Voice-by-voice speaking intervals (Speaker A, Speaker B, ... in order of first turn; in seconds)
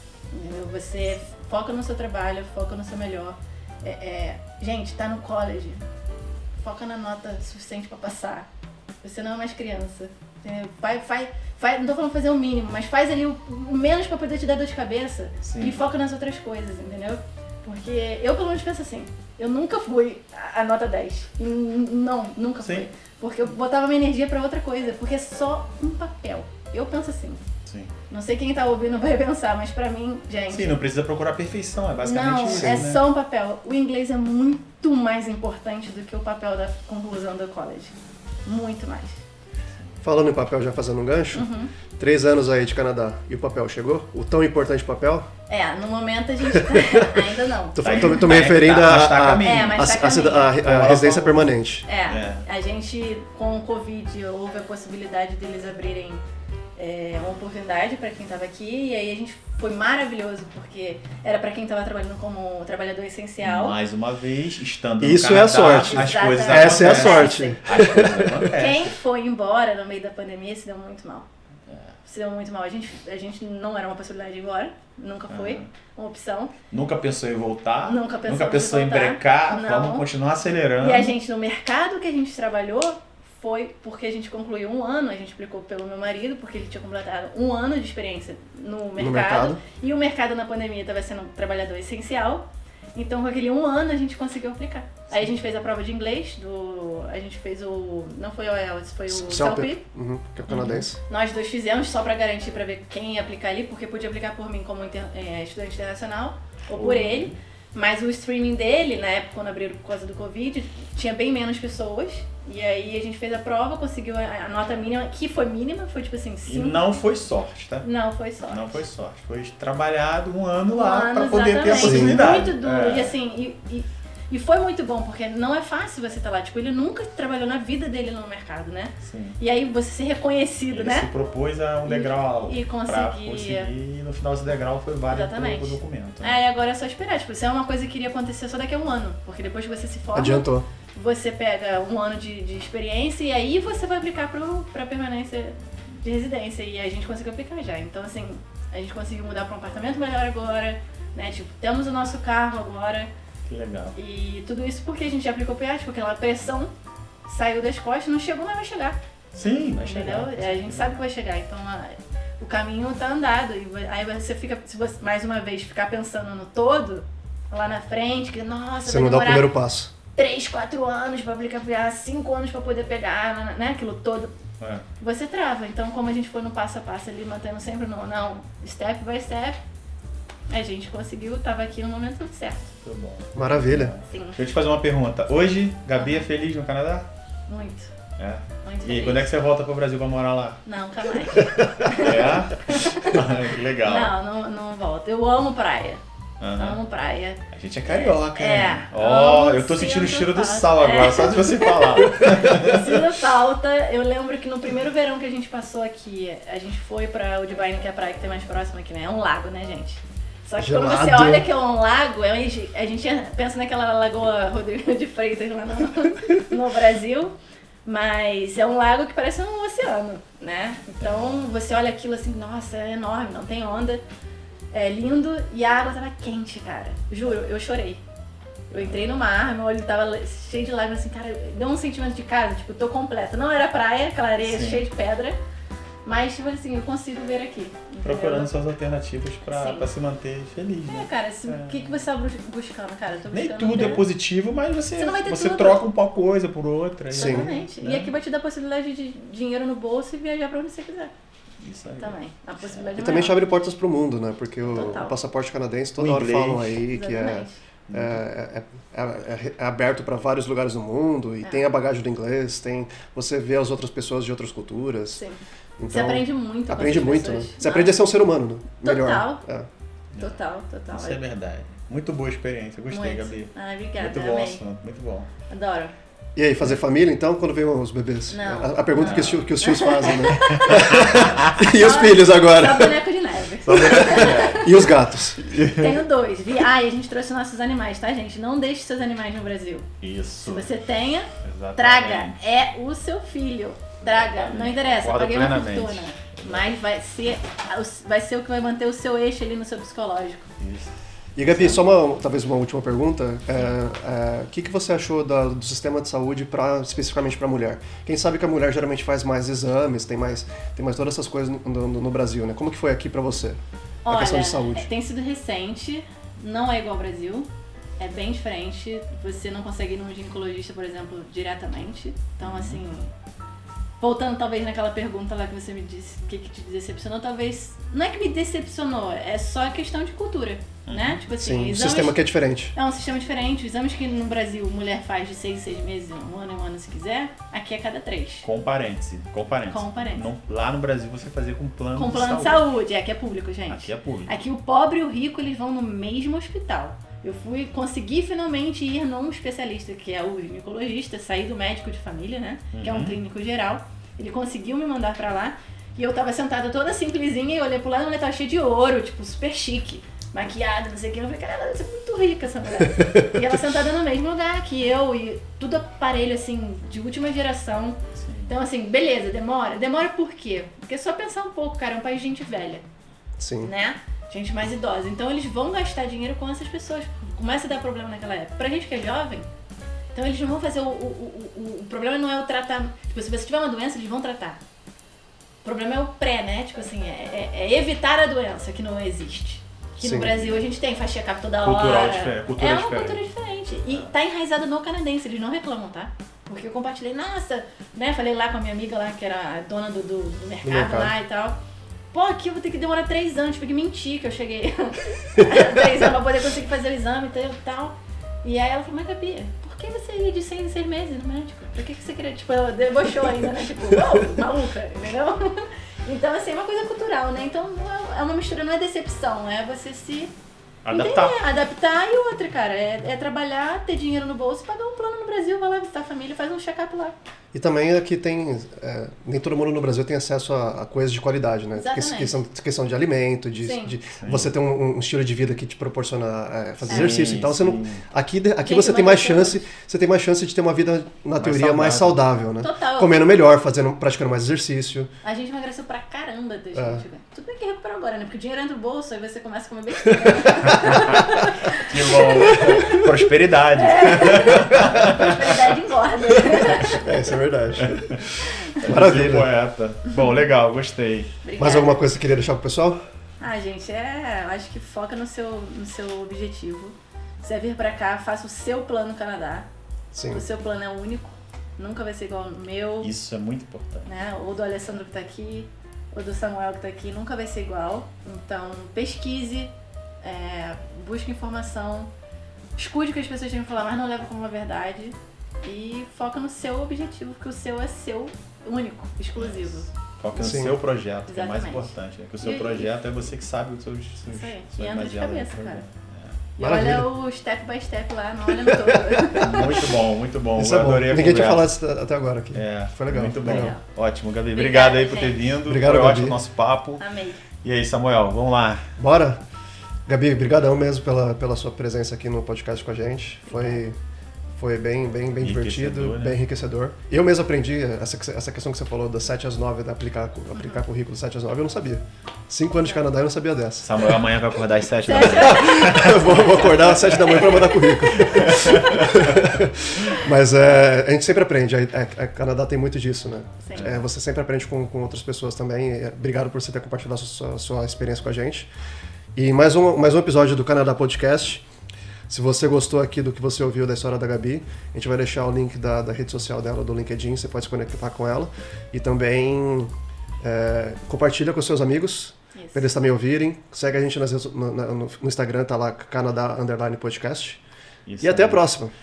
Speaker A: 0.3-5.8, 6.6-8.5, 9.0-27.4, 28.1-30.7, 32.0-37.9, 38.5-39.2, 41.3-41.7, 45.5-48.2, 49.4-51.0, 51.9-56.2, 56.8-63.8, 65.9-71.3, 72.0-76.5, 77.8-80.1, 80.8-99.8, 101.1-116.8, 117.8-118.8, 120.7-131.1, 131.8-133.7, 135.1-153.1, 153.9-156.7, 157.2-159.0, 159.8-169.5, 170.2-174.3, 175.0-179.6, 180.5-182.6, 184.1-184.4, 186.0-186.2, 187.5-187.9, 188.6-189.3, 190.6-193.2, 193.8-196.0, 196.6-224.0, 224.7-228.0, 228.7-235.4, 236.0-238.5, 239.5-239.9, 240.9-244.1, 244.9-245.8, 247.1-251.1, 252.0-253.4, 254.7-255.2, 256.9-257.6, 265.9-268.0, 268.8-269.4, 270.2-271.2, 272.9-274.6, 275.5-275.9, 278.3-284.8, 285.4-300.5, 314.0-317.5, 318.0-323.1, 324.0-332.2, 332.7-338.5, 339.7-340.2, 341.9-372.8, 373.6-379.5, 380.1-384.6, 385.6-401.6, 402.1-420.3, 420.9-427.1, 431.8-432.3, 433.6-433.9, 436.9-437.3, 438.6-439.6, 442.6-443.4, 445.2-453.0, 453.7-457.1, 458.4-458.8, 461.4-462.0, 463.4-469.6, 470.3-473.1, 474.1-482.1, 482.8-489.9, 491.3-492.9, 494.2-495.8, 496.6-499.9, 503.4-503.8, 504.5-505.4, 507.0-507.4, 513.5-513.8, 520.5-520.8, 525.0-526.7, 528.2-529.1, 533.6-533.9, 552.5-552.9
Speaker B: 15.4-15.8, 27.6-27.9, 30.5-33.0, 47.8-49.9, 50.5-51.5, 52.0-52.5, 63.4-68.9, 75.3-75.7, 76.7-81.1, 100.5-100.8, 106.8-107.3, 116.5-117.9, 118.5-123.1, 129.0-129.4, 130.7-136.4, 153.5-153.9, 159.3-160.9, 174.6-174.8, 182.7-187.1, 188.2-190.6, 191.4-194.1, 196.4-196.8, 197.5-203.0, 221.0-221.4, 228.7-229.0, 234.4-234.8, 238.0-242.0, 243.3-248.1, 251.6-252.2, 256.0-256.8, 257.9-258.2, 270.9-275.3, 278.9-279.4, 280.2-281.6, 283.6-284.7, 285.4-286.0, 290.0-290.7, 291.4-292.4, 294.1-296.7, 300.6-301.9, 322.4-322.8, 330.9-331.2, 338.4-342.6, 343.7-344.4, 352.7-353.2, 368.2-368.5, 391.6-393.2, 393.8-394.1, 420.8-421.4, 434.2-434.5, 436.9-438.0, 441.4-442.2, 450.7-455.7, 457.8-461.3, 473.0-474.1, 489.4-496.4, 499.4-501.7, 502.5-507.0, 507.6-508.9, 515.4-516.4, 523.8-529.4, 558.0-558.6
Speaker C: 32.5-32.9, 40.0-45.3, 46.5-51.9, 65.0-68.5, 89.0-89.6, 99.1-101.0, 121.7-122.3, 140.1-140.7, 168.8-169.9, 183.3-183.9, 210.6-211.5, 247.1-247.5, 252.9-265.2, 265.8-269.7, 276.4-282.9, 284.1-285.4, 301.4-314.9, 331.4-332.7, 373.4-373.7, 390.0-390.3, 400.6-401.1, 427.5-445.1, 446.8-447.0, 450.2-451.2, 452.2-453.1, 456.7-459.5, 461.6-463.0, 470.1-470.4, 490.4-490.8, 496.6-497.1, 498.7-499.2, 500.6-503.7, 505.6-506.4, 509.0-509.4, 510.1-514.0, 514.5-524.1, 525.2-538.7, 539.3-541.6, 542.3-557.6, 558.2-558.9